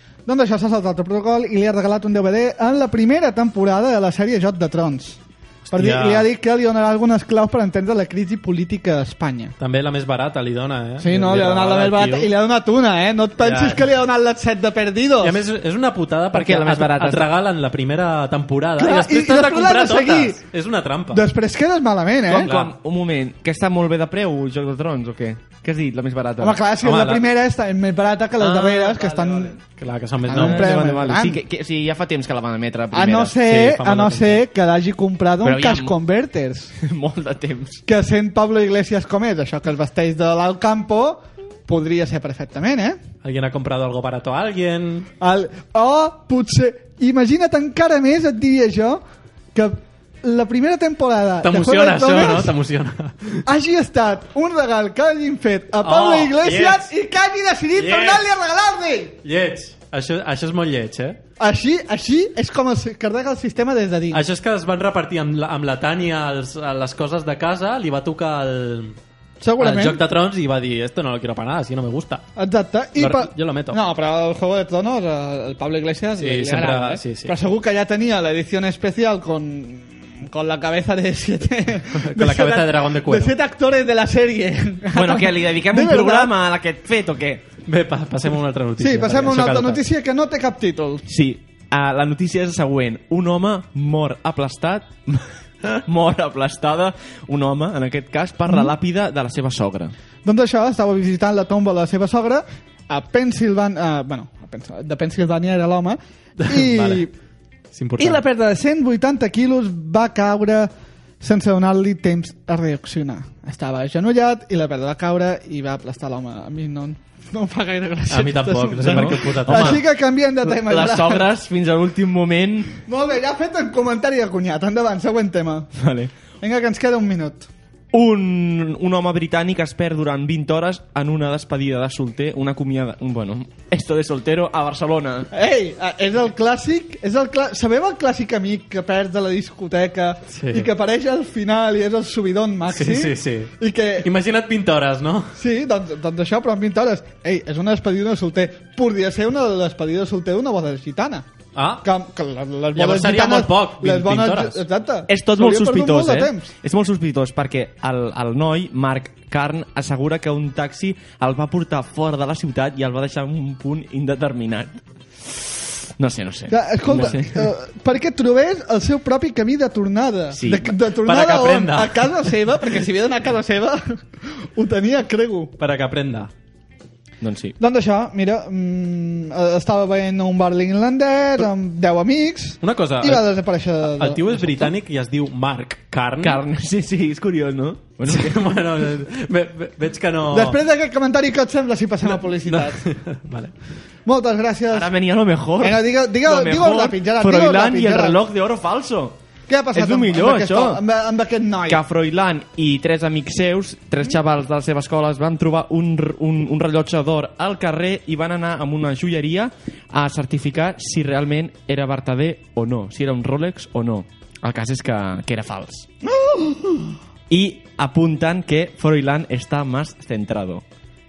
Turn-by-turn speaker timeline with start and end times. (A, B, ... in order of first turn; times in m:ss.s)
0:00.3-0:05.2 A
0:05.6-0:06.3 B
0:05.7-0:09.5 A
0:09.6-0:12.3 B
0:11.0-0:15.4 A
0:13.4-0:13.9 B
0:15.2-0:21.2 B
0:16.3-0:17.3 C
0:18.8-0:20.4 A
0:21.1-0:22.5 A
0:22.3-0:26.6 C
0:22.4-0:22.7 B
0:26.4-0:29.6 A
0:26.8-0:27.3 B
0:28.4-0:29.6 C
0:29.8-0:30.9 B
0:30.3-0:31.4 A
0:30.3-0:33.4 C
0:32.9-0:36.7 A
0:33.4-0:34.4 B
0:35.4-0:36.0 C
0:36.8-0:37.8 C
0:37.9-0:43.0 A
0:43.2-0:45.1 B
0:45.2-0:49.0 A
0:49.5-0:52.5 A
0:51.4-0:53.4 B
0:53.5-0:59.2 A
0:55.8-0:56.9 B
0:57.8-0:58.3 B
0:59.2-1:01.2 B
1:01.4-1:04.2 A
1:04.1-1:09.0 B
1:09.4-1:10.0 A
1:09.6-1:12.2 B
1:12.4-1:26.3 A
1:13.0-1:13.8 B
1:16.2-1:17.4 B
1:21.9-1:23.4 B
1:24.9-1:27.4 C
1:27.7-1:29.8 B
1:28.8-1:31.0 A
1:31.1-1:40.0 C
1:40.2-1:47.1 A
1:46.4-1:47.0 B
1:47.7-1:48.2 B
1:48.0-1:50.7 A
1:51.2-2:01.3 A
1:58.1-1:59.8 B
1:58.8-1:59.9 C
2:00.4-2:02.8 C
2:02.9-2:05.7 A
2:05.8-2:06.1 C
2:06.4-2:07.5 A
2:07.9-2:15.3 C
2:15.3-2:24.1 A
2:20.3-2:20.7 B
2:22.7-2:25.4 B
2:25.4-2:31.3 A
2:31.6-2:31.8 B
2:31.8-2:36.5 A
2:32.7-2:34.6 B
2:35.1-2:47.5 C
2:46.5-2:55.5 A
2:50.3-2:50.7 C
2:51.0-2:52.2 B
2:55.6-2:56.3 B
2:57.2-2:57.6 C
2:57.6-3:04.7 A
3:02.6-3:06.4 B
3:06.2-3:08.5 C
3:08.0-3:10.6 B
3:10.3-3:12.8 A
3:12.0-3:13.5 B
3:14.0-3:14.9 A
3:14.7-3:19.2 C
3:15.6-3:18.2 A
3:19.5-3:21.8 A
3:19.7-3:20.8 C
3:21.7-3:35.9 C
3:36.0-3:37.0 A
3:37.3-3:40.6 C